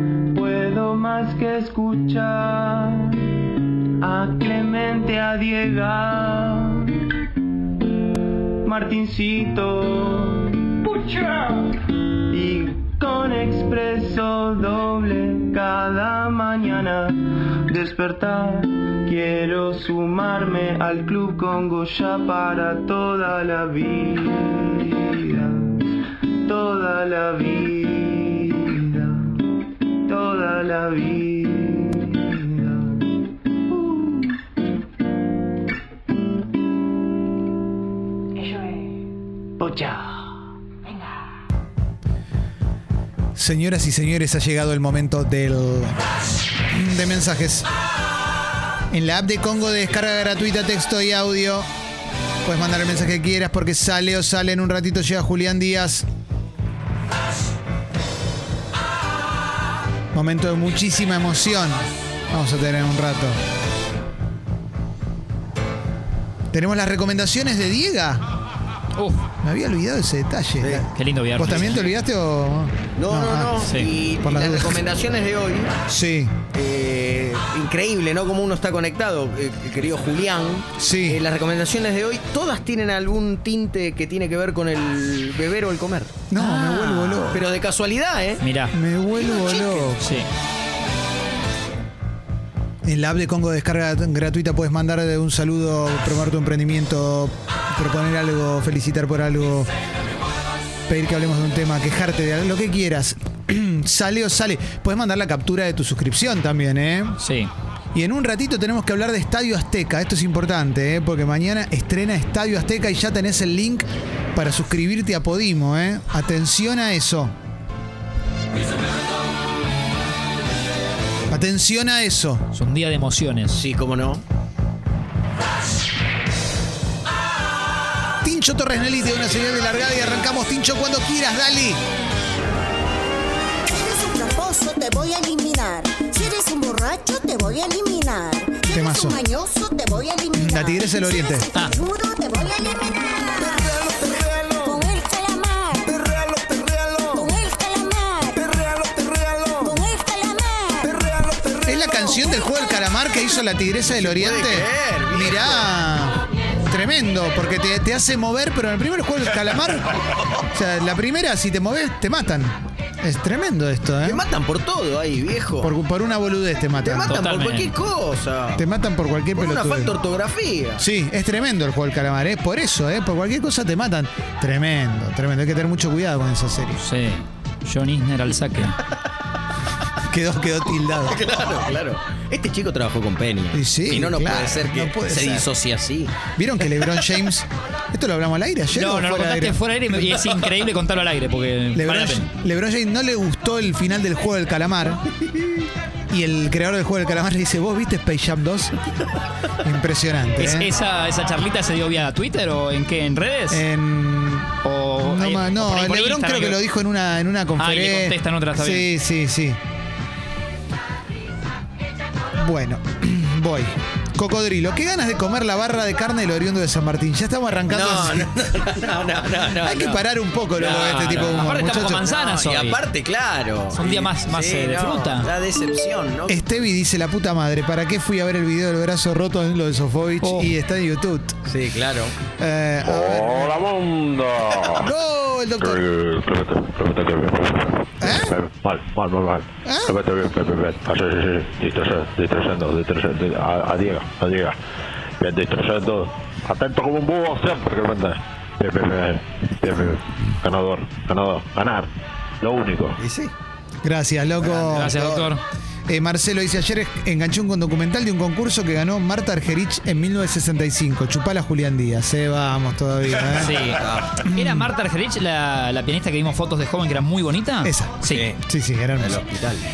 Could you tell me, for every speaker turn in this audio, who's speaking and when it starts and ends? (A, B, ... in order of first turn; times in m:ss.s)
0:00.3-0:03.3 A
0:04.0-0:07.0 A
0:08.6-0:11.6 A
0:12.3-0:25.8 A
0:26.4-0:29.4 A
0:30.1-0:33.0 A
0:33.7-0:34.0 A
0:39.6-0:40.2 A
0:43.3-0:46.0 B
0:46.7-0:47.7 B
0:48.9-0:51.7 B
0:52.4-0:56.0 B
1:00.1-1:03.4 B
1:06.5-1:08.2 B
1:09.0-1:09.2 C
1:09.4-1:13.6 B
1:10.9-1:11.9 C
1:13.0-1:15.7 D
1:13.6-1:13.9 C
1:14.2-1:14.8 B
1:15.9-1:16.3 B
1:16.5-1:26.3 D
1:20.8-1:21.2 B
1:26.3-1:27.4 B
1:26.3-1:27.2 C
1:27.2-1:28.4 D
1:28.4-1:28.7 C
1:28.7-1:30.1 B
1:29.1-1:29.9 D
1:30.0-1:30.3 C
1:32.8-1:39.7 B
1:40.9-1:47.2 B
1:47.2-1:47.5 C
1:47.9-1:57.3 B
2:01.3-2:02.4 B
2:02.5-2:03.6 C
2:03.5-2:04.2 D
2:08.2-2:11.8 B
2:13.7-2:26.0 E
2:18.7-2:19.2 B
2:20.3-2:21.5 B
2:23.9-2:24.8 D
2:25.9-2:27.3 D
2:27.1-2:28.5 E
2:28.4-2:29.8 D
2:29.6-2:31.0 E
2:30.8-2:31.8 D
2:31.6-2:40.0 B
2:33.9-2:35.7 D
2:40.5-2:44.2 B
2:44.0-2:45.7 D
2:45.6-2:47.2 B
2:46.8-2:48.6 D
2:47.1-2:47.7 C
2:48.6-2:49.9 B
2:49.3-2:50.8 D
2:50.8-2:56.8 B
2:56.8-2:58.8 C
3:00.1-3:01.2 B
3:01.1-3:06.2 D
3:03.5-3:05.5 B
3:06.3-3:09.6 B
3:08.7-3:12.3 C
3:11.7-3:15.0 B
3:16.1-3:18.7 B
3:19.6-3:20.7 B
3:20.4-3:23.6 C
3:23.5-3:29.6 B
3:24.6-3:26.6 C
3:27.6-3:28.9 C
3:32.4-3:38.3 B
3:37.7-3:46.6 D
3:39.6-3:42.0 B
3:40.7-3:42.8 C
3:43.7-3:45.3 C
3:46.3-3:51.3 B
3:50.2-3:50.5 C
3:51.5-3:52.1 D
3:52.4-3:53.6 B
3:52.8-3:54.9 F
3:54.6-3:55.8 B
3:55.6-4:04.6 F
3:58.0-3:58.3 B
3:59.6-3:59.9 B
4:05.2-4:11.9 F
4:12.4-4:13.0 F
4:13.0-4:13.3 D
4:13.8-4:15.0 B
4:14.4-4:15.4 C
4:14.7-4:15.3 D
4:15.9-4:24.7 B
4:23.3-4:28.2 C
4:23.7-4:24.2 D
4:27.6-4:29.2 B
4:28.1-4:28.4 D
4:29.0-4:29.6 D